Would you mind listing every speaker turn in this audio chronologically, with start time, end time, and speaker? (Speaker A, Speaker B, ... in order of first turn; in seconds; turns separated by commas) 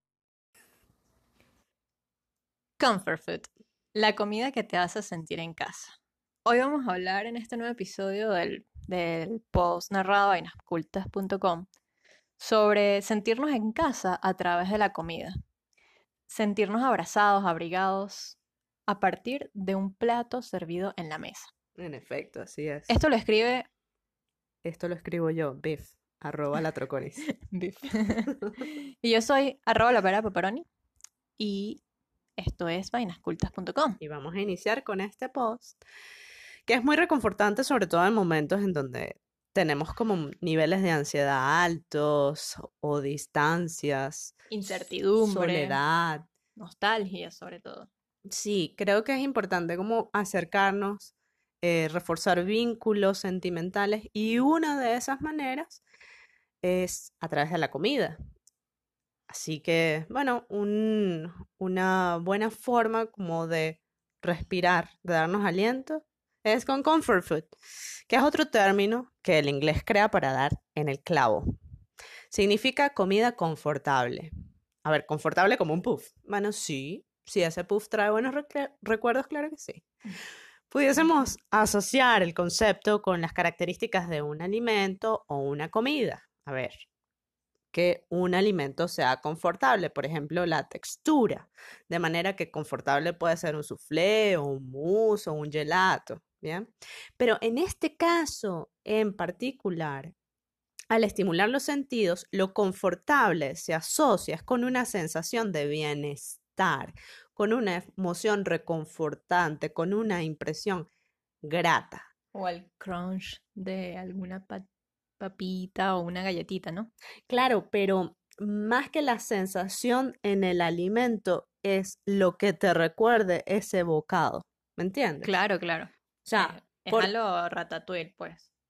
Speaker A: 2.8-11.7, Speaker A: 12.4-15.3, Speaker A: 16.3-21.5, Speaker B: 21.8-22.9, Speaker A: 22.9-23.7, Speaker B: 24.6-27.2, Speaker A: 27.3-30.6, Speaker A: 31.4-31.8, Speaker A: 32.4-34.0, Speaker B: 34.0-35.8, Speaker B: 36.7-44.5, Speaker A: 44.5-45.8, Speaker B: 45.2-46.3, Speaker A: 46.5-47.9, Speaker B: 48.3-55.8, Speaker B: 56.6-58.2, Speaker B: 59.3-67.5, Speaker B: 68.1-71.5, Speaker B: 72.3-74.3, Speaker B: 74.8-79.9, Speaker B: 80.7-86.8, Speaker B: 87.7-100.1, Speaker B: 100.9-110.9, Speaker B: 111.4-112.1, Speaker A: 112.3-114.6, Speaker A: 115.2-116.9, Speaker B: 117.3-125.3, Speaker A: 125.2-128.5, Speaker B: 126.2-127.1